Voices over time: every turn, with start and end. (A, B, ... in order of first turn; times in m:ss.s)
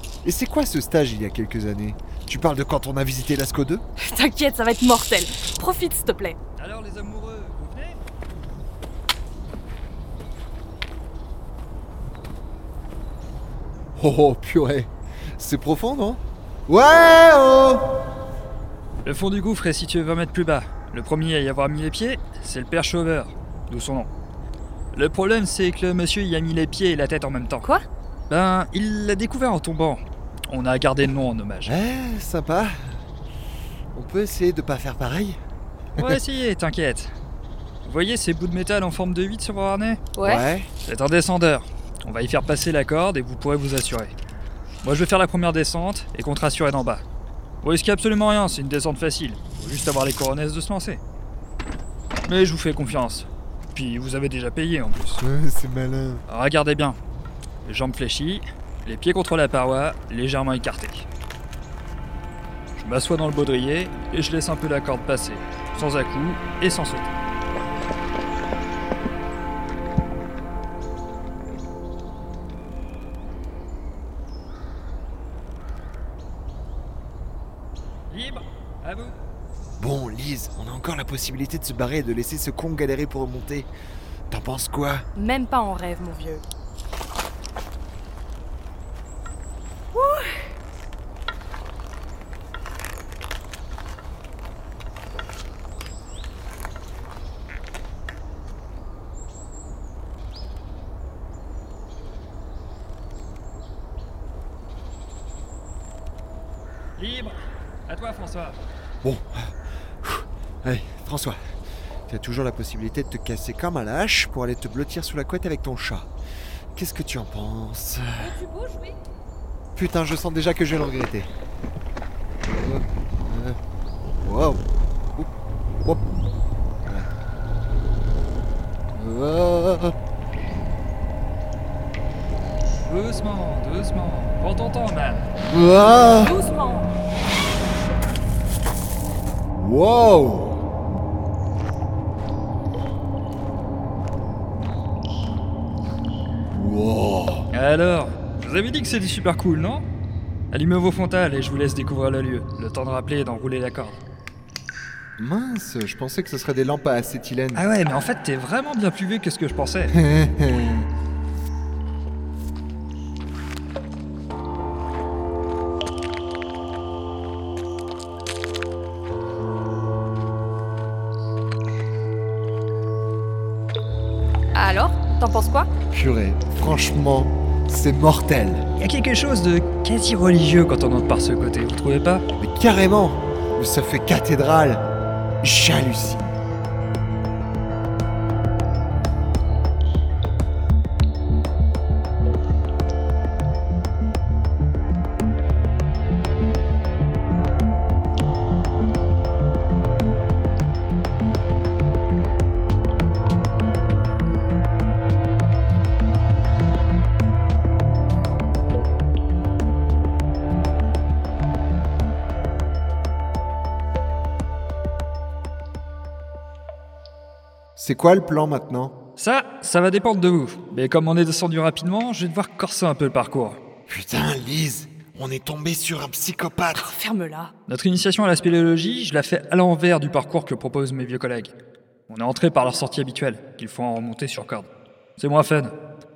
0:00.2-0:03.8 A
0:04.0-0:06.4 B
0:06.6-0:08.0 C
0:14.0-0:17.8 A
0:19.0-0:24.1 C
0:24.9-0:27.7 C
0:28.3-0:31.7 C
0:31.6-0:33.0 A
0:33.9-0:35.4 A
0:36.0-0:37.1 C
0:37.8-0:40.0 C
0:40.2-0:40.4 B
0:40.2-0:40.7 A
0:40.8-0:44.1 C
0:44.8-0:47.0 C
0:47.6-0:51.0 C
0:52.2-0:55.2 C
0:55.2-0:56.2 A
0:56.3-0:57.0 C
0:57.6-1:01.1 C
1:02.8-1:07.1 C
1:18.1-1:19.1 C
1:19.8-1:23.7 A
1:24.3-1:25.0 A
1:25.2-1:26.4 B
1:29.9-1:30.4 B
1:47.0-1:48.6 C
1:49.0-1:51.4 A
1:52.1-1:56.1 A
1:56.7-1:58.4 A
1:58.2-1:59.0 B
1:59.8-2:01.3 A
2:02.5-2:03.6 A
2:04.2-2:04.6 A
2:08.9-2:09.9 A
2:12.8-2:15.3 C
2:15.5-2:16.4 A
2:16.1-2:16.9 B
2:19.5-2:20.6 A
2:26.5-2:27.5 A
2:27.5-2:29.8 C
2:30.5-2:34.0 C
2:35.2-2:37.6 A
2:37.5-2:39.9 C
2:39.9-2:40.8 A
2:54.5-2:55.7 B
2:55.9-2:58.7 A
2:58.8-3:02.2 C
3:02.4-3:04.8 A
3:05.4-3:06.3 A
3:37.8-3:38.9 A
3:39.2-3:43.6 C
3:43.9-3:46.9 A
3:46.7-3:47.5 B
3:47.7-3:51.5 C
3:52.1-3:55.7 C